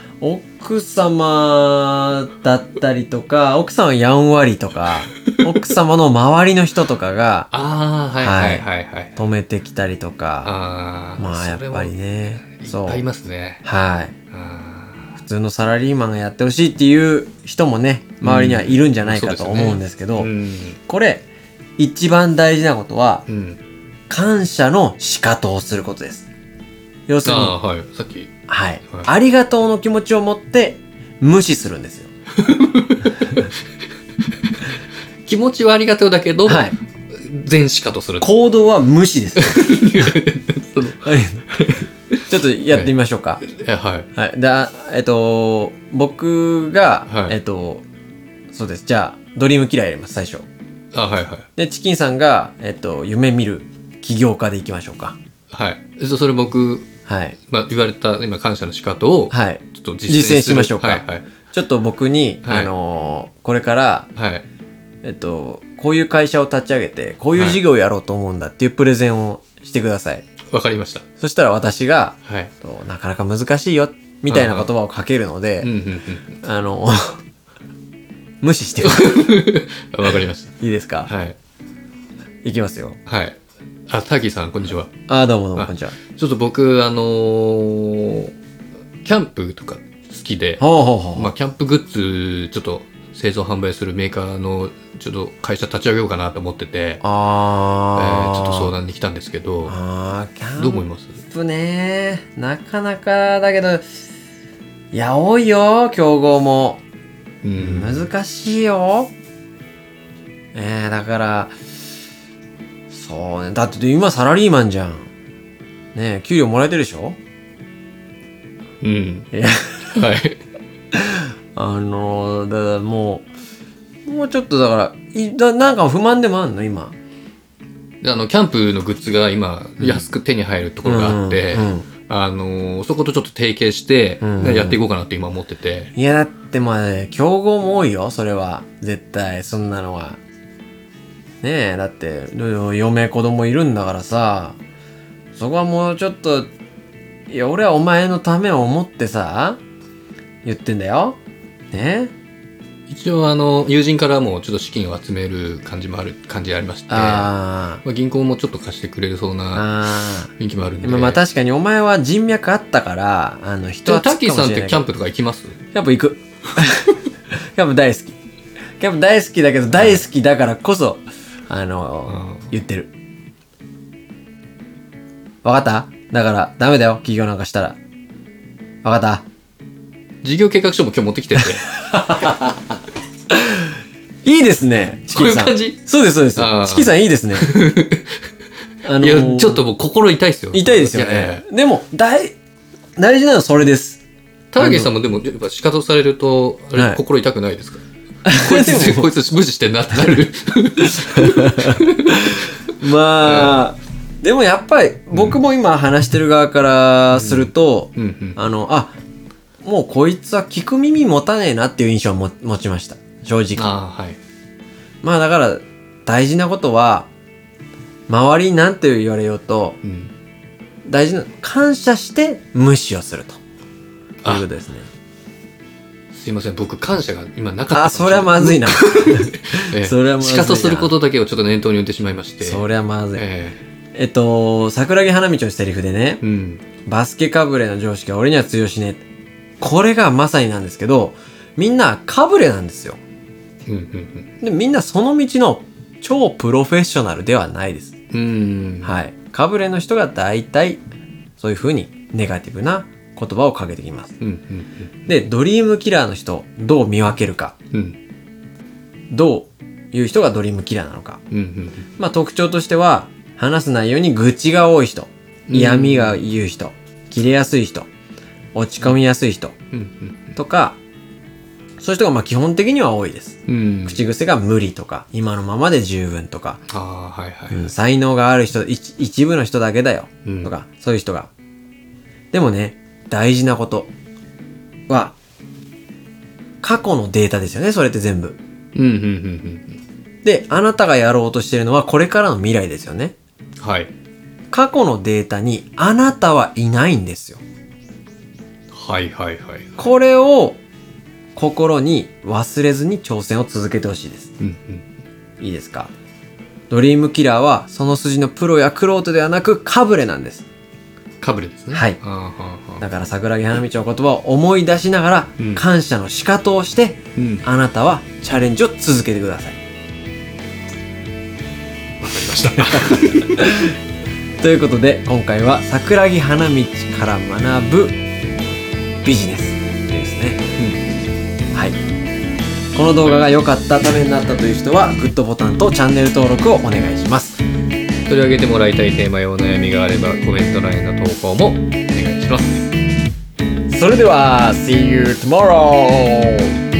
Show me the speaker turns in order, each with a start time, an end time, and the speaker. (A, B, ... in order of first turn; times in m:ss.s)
0:00.2-0:07.5 A
0:07.5-0:09.2 B
0:08.2-0:08.6 A
0:09.2-0:10.5 A
0:10.4-0:13.6 B
0:11.2-0:13.0 A
0:13.6-0:14.2 A
0:14.3-0:15.1 B
0:15.2-0:20.3 A
0:18.2-0:20.8 B
0:20.9-0:21.3 A
0:21.8-0:23.2 A
0:23.3-0:23.6 B
0:24.1-0:26.3 A
0:27.1-0:27.6 A
0:27.2-0:28.3 B
0:28.5-0:32.1 A
0:32.4-0:33.5 B
0:35.3-0:38.3 B
0:36.5-0:36.8 A
0:38.2-0:40.1 A
0:39.4-0:41.9 B
0:41.0-0:41.5 A
0:42.3-0:43.4 A
0:43.4-0:44.1 B
0:44.2-0:47.8 A
0:47.1-0:47.4 B
0:48.5-0:50.5 A
0:50.9-0:51.5 B
0:51.6-0:55.2 A
0:55.5-0:56.9 B
0:57.1-0:57.4 A
0:57.5-1:01.3 B
0:59.3-1:04.1 A
1:02.4-1:02.7 B
1:04.2-1:04.4 B
1:05.0-1:10.2 A
1:07.4-1:07.6 B
1:10.5-1:11.0 B
1:11.2-1:15.7 A
1:12.3-1:12.5 B
1:14.3-1:14.7 B
1:15.6-1:16.4 B
1:16.4-1:17.2 A
1:18.4-1:19.4 A
1:18.8-1:20.5 B
1:20.1-1:21.1 A
1:21.1-1:21.4 B
1:22.4-1:23.0 A
1:23.1-1:24.9 B
1:25.1-1:26.0 A
1:25.6-1:28.3 B
1:29.0-1:30.6 B
1:30.6-1:31.3 A
1:31.2-1:37.0 B
1:37.0-1:38.7 A
1:38.0-1:39.8 B
1:39.7-1:43.9 A
1:40.6-1:41.2 B
1:44.9-1:46.8 A
1:47.4-1:48.1 B
1:47.6-1:49.1 A
1:50.5-1:51.6 A
1:52.9-1:55.1 A
1:56.0-1:57.2 A
1:58.8-1:59.3 B
1:59.3-2:00.1 A
1:59.9-2:00.4 B
2:00.9-2:03.3 A
2:04.1-2:07.0 A
2:08.0-2:15.9 B
2:09.8-2:10.1 A
2:10.8-2:11.9 A
2:14.2-2:14.8 A
2:16.0-2:20.2 A
2:21.4-2:24.6 A
2:25.4-2:26.5 A
2:27.3-2:29.6 A
2:30.4-2:31.2 A
2:31.7-2:32.1 A
2:32.9-2:37.3 B
2:36.9-2:37.8 A
2:37.8-2:39.7 B
2:39.6-2:44.9 A
2:40.3-2:41.2 B
2:43.8-2:45.6 B
2:45.7-2:48.2 A
2:48.8-2:52.9 A
2:52.1-2:52.5 B
2:55.4-2:57.8 A
2:58.8-2:59.3 A
3:00.2-3:01.8 B
3:01.8-3:02.7 A
3:03.3-3:03.7 A
3:04.2-3:07.5 A
3:05.1-3:05.8 B
3:06.4-3:08.2 B
3:08.8-3:09.6 A
3:09.0-3:11.5 B
3:10.5-3:12.4 A
3:13.0-3:14.0 A
3:14.5-3:23.6 B
3:14.6-3:14.9 A
3:16.8-3:17.0 A
3:18.2-3:19.1 A
3:20.0-3:20.2 A
3:20.8-3:29.0 A
3:25.1-3:25.4 B
3:27.1-3:28.4 B
3:29.6-3:33.6 A
3:33.6-3:34.2 B
3:35.0-3:37.1 A
3:38.1-3:39.8 A
3:39.8-3:40.1 B
3:40.8-3:43.4 A
3:44.2-3:44.9 A
3:46.1-3:53.6 B
3:47.7-3:50.9 A
3:52.4-3:53.2 A
3:54.0-3:56.2 A
3:56.2-3:56.6 B
3:56.9-3:59.0 A
3:59.6-4:03.0 A
4:03.7-4:04.3 B
4:04.4-4:07.9 A
4:08.1-4:09.0 B
4:08.8-4:10.8 A
4:11.4-4:14.2 A
4:14.2-4:14.9 B
4:15.1-4:17.6 A
4:17.7-4:18.0 B
4:19.1-4:21.2 A
4:21.3-4:21.9 B
4:22.0-4:27.9 A
4:25.5-4:26.2 B
4:28.6-4:29.6 A
4:29.7-4:30.4 B
4:30.4-4:30.8 A
4:31.8-4:36.6 A
4:33.5-4:34.0 B
4:36.7-4:37.7 B
4:37.5-4:41.3 A
4:40.2-4:40.5 B
4:42.3-4:43.9 A
4:44.9-4:45.2 A
4:46.6-4:48.4 A
4:48.8-4:49.8 B
4:50.2-4:53.2 A
4:53.6-4:53.9 B
4:54.5-4:57.4 A
4:58.7-4:59.9 B
4:59.8-5:00.6 A
5:01.4-5:04.3 A
5:04.4-5:04.9 B
5:05.4-5:05.9 A
5:06.7-5:10.5 A
5:11.2-5:12.9 B
5:11.7-5:12.0 A
5:12.8-5:19.6 A
5:15.4-5:15.6 B
5:17.2-5:17.4 B
5:22.0-5:23.7 B
5:22.6-5:23.8 A
5:24.4-5:28.0 A
5:29.0-5:30.4 A
5:30.6-5:30.8 B
5:31.5-5:31.8 A
5:32.8-5:37.4 A
5:38.1-5:42.7 B
5:43.7-5:46.5 A